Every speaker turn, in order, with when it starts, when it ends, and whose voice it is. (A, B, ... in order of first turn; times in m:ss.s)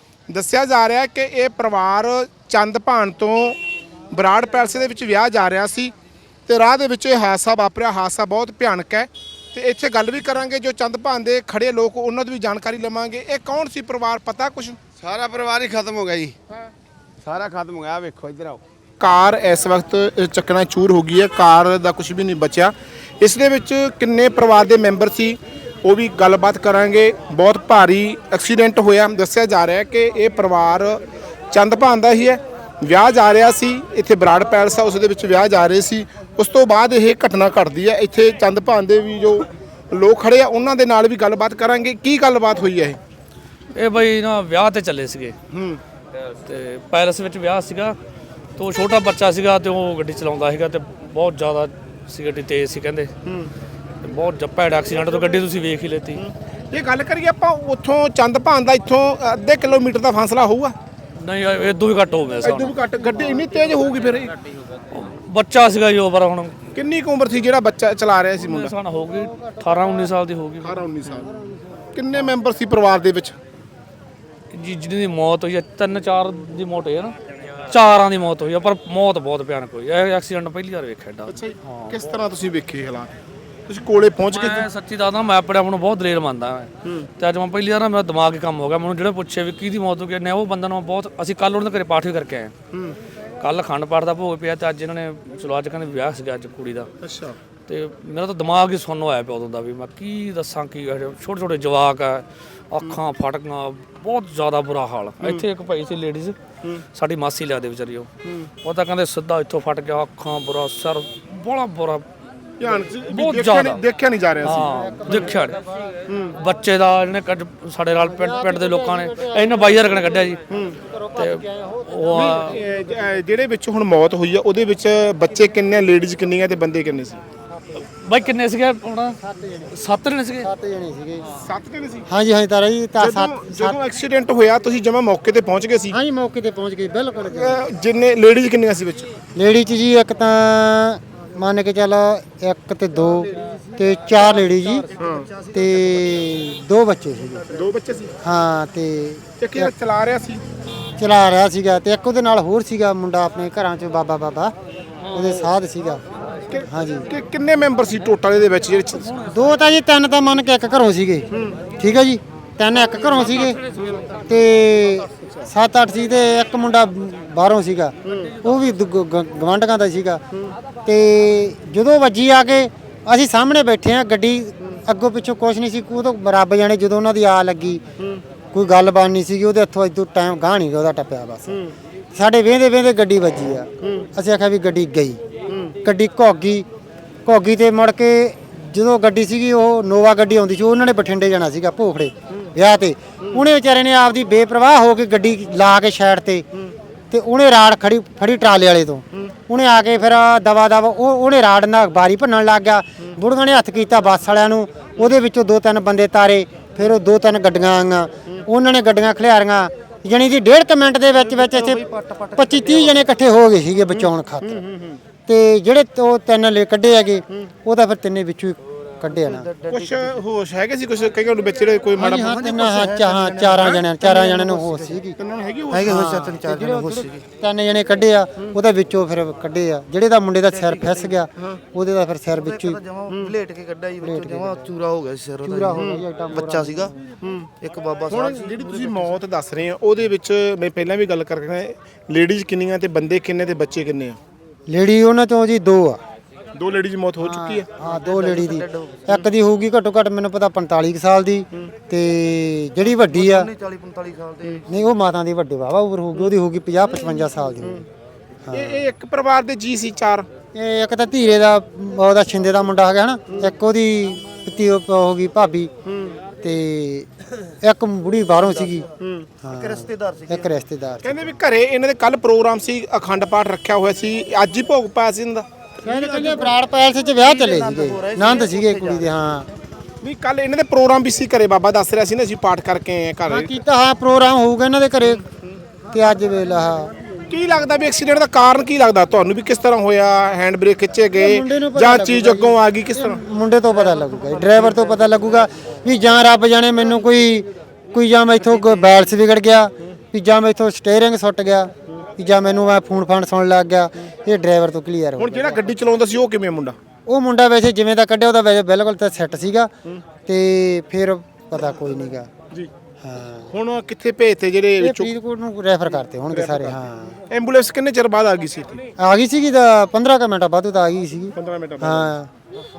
0:00.3-0:03.6 A
0:04.1-0:05.9 A
0:06.5-0:14.8 A
0:15.2-0:16.3 B
0:17.3-0:18.6 B
0:19.0-0:31.0 A
0:31.5-0:43.0 A
0:43.8-0:45.4 C
0:45.5-0:45.8 A
0:46.4-0:48.0 C
0:48.6-0:53.1 C
0:54.0-0:56.2 C
0:56.2-1:00.7 A
1:01.2-1:02.7 C
1:02.4-1:04.3 A
1:04.9-1:06.6 C
1:06.8-1:08.7 A
1:08.4-1:10.8 C
1:10.6-1:11.3 A
1:12.0-1:13.4 A
1:14.5-1:17.2 C
1:17.7-1:21.9 C
1:21.3-1:23.1 A
1:23.7-1:24.7 A
1:24.3-1:32.5 C
1:33.4-1:36.9 C
1:37.0-1:37.4 A
1:37.7-1:46.4 C
1:47.0-1:48.1 C
1:48.6-1:52.0 C
1:52.6-1:54.6 A
1:53.1-1:53.8 C
1:54.4-1:55.6 C
1:54.5-1:55.4 D
1:56.1-1:56.4 A
1:56.4-2:00.4 C
1:58.0-2:00.4 D
2:00.5-2:00.8 A
2:01.2-2:01.8 D
2:01.2-2:02.6 C
2:02.2-2:07.2 A
2:07.8-2:09.2 C
2:09.2-2:09.7 D
2:09.8-2:10.5 C
2:10.4-2:11.3 D
2:11.4-2:12.1 A
2:12.1-2:13.8 D
2:13.0-2:16.0 A
2:15.9-2:17.6 D
2:17.3-2:19.1 A
2:19.4-2:24.9 D
2:25.0-2:25.3 A
2:25.5-2:27.5 D
2:27.5-2:28.1 A
2:28.2-2:29.7 D
2:29.4-2:30.4 A
2:31.0-2:34.5 D
2:35.0-2:35.4 C
2:35.1-2:36.0 D
2:36.5-2:39.2 A
2:36.7-2:37.1 D
2:39.3-2:43.6 D
2:41.3-2:41.6 A
2:44.3-2:50.2 D
2:50.8-2:57.8 D
2:58.5-3:01.6 D
3:02.1-3:05.2 D
3:05.8-3:06.7 D
3:07.3-3:16.5 D
3:17.1-3:31.8 D
3:31.4-3:32.9 E
3:32.3-3:34.6 D
3:34.5-3:35.0 A
3:35.3-3:39.5 D
3:39.7-3:42.3 A
3:42.0-3:45.2 D
3:45.2-3:46.1 A
3:45.8-3:52.8 D
3:46.6-3:47.1 E
3:53.0-3:55.7 E
3:54.0-3:54.8 D
3:55.4-3:56.9 D
3:56.5-3:56.8 E
3:57.2-3:57.5 A
3:57.6-3:58.2 E
3:58.1-4:04.2 A
4:04.7-4:06.0 D
4:06.6-4:07.7 A
4:07.2-4:13.5 D
4:08.3-4:08.6 E
4:13.2-4:14.6 E
4:14.7-4:17.8 D
4:18.5-4:18.8 D
4:18.5-4:20.3 A
4:20.6-4:25.7 D
4:26.4-4:27.1 D
4:27.6-4:28.9 D
4:29.0-4:29.3 A
4:29.4-4:31.2 D
4:31.0-4:36.5 A
4:35.8-4:39.5 D
4:37.4-4:39.0 E
4:40.0-4:43.6 A
4:43.3-4:45.2 D
4:45.9-4:46.9 D
4:47.3-4:53.2 A
4:51.1-5:05.8 D
5:05.2-5:06.8 A
5:07.1-5:09.7 D
5:10.3-5:12.3 D
5:13.0-5:13.5 D
5:13.5-5:15.1 A
5:14.8-5:17.2 D
5:16.3-5:16.8 A
5:17.3-5:18.8 A
5:19.0-5:22.3 D
5:21.4-5:22.1 A